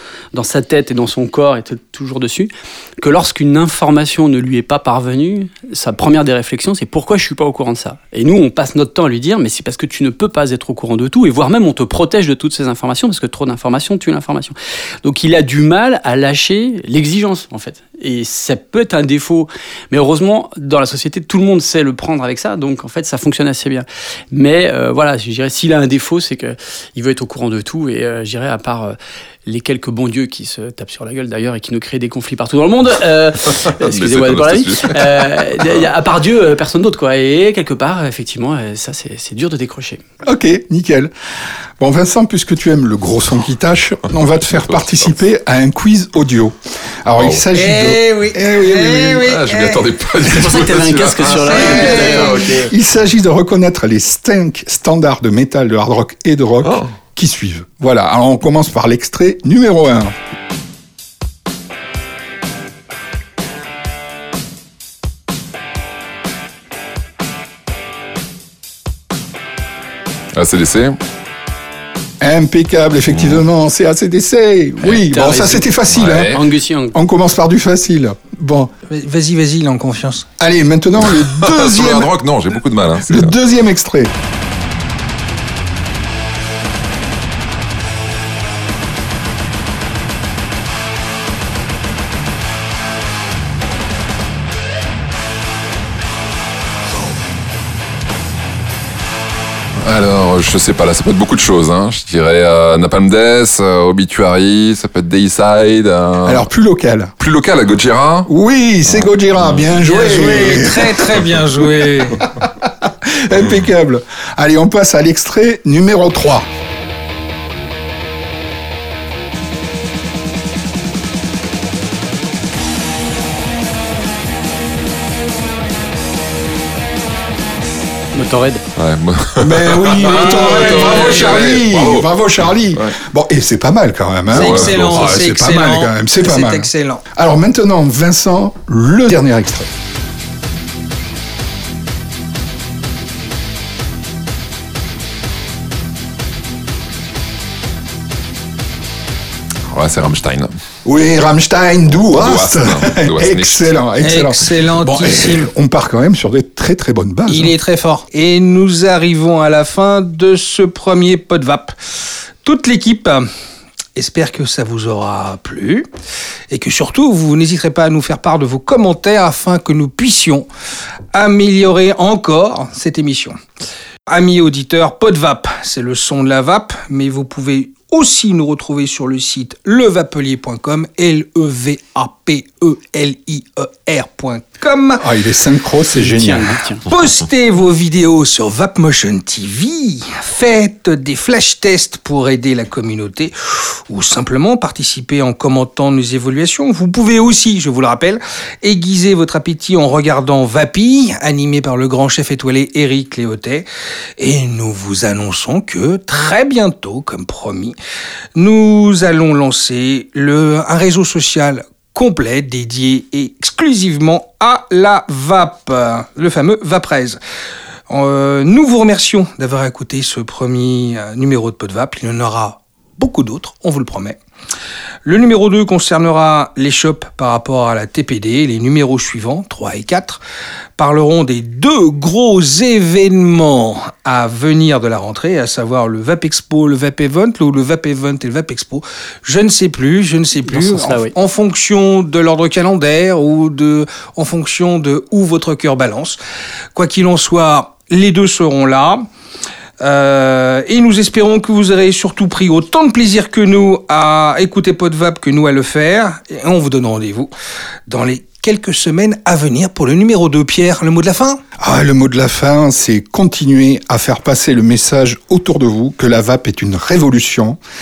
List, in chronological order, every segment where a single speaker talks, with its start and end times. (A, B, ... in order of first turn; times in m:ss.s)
0:00.3-0:40.0 A
0:33.5-0:35.8 B
0:40.2-0:41.1 C
0:41.8-0:49.4 C
0:44.5-0:45.1 B
0:47.2-0:47.4 B
0:47.5-0:49.9 D
0:49.1-0:52.7 B
0:50.3-0:52.3 A
0:51.2-0:52.6 D
0:52.0-1:00.1 C
1:10.3-1:11.0 B
1:12.2-1:16.4 C
1:13.1-1:13.4 B
1:14.8-1:17.0 A
1:15.9-1:16.4 B
1:16.9-1:18.7 C
1:18.9-1:20.3 D
1:20.4-1:22.1 C
1:21.0-1:23.4 B
1:23.1-1:24.1 C
1:39.8-1:46.5 B
1:46.2-1:47.1 C
1:47.2-1:48.3 B
1:48.3-1:51.0 C
1:48.9-1:49.7 B
1:49.8-1:52.2 D
1:52.2-1:56.5 C
2:08.1-2:08.6 A
2:08.8-2:13.0 B
2:09.4-2:19.7 C
2:10.2-2:11.2 D
2:14.3-2:15.3 B
2:14.3-2:17.0 D
2:29.7-2:30.5 B
2:30.8-2:37.6 C
2:32.0-2:33.7 B
2:34.0-2:35.5 D
2:37.3-2:41.7 D
2:42.4-2:43.3 D
2:44.0-2:45.9 D
2:46.5-2:50.5 D
2:51.1-2:53.4 D
2:54.1-3:05.1 D
3:05.0-3:06.6 C
3:05.9-3:06.9 A
3:06.9-3:23.7 D
3:24.2-3:27.8 D
3:28.4-3:37.2 D
3:37.9-3:44.2 D
3:45.0-3:50.2 D
3:50.8-4:06.2 D
4:00.5-4:01.1 A
4:06.7-4:09.1 D
4:09.8-4:17.3 D
4:17.9-4:21.4 D
4:21.6-4:27.6 C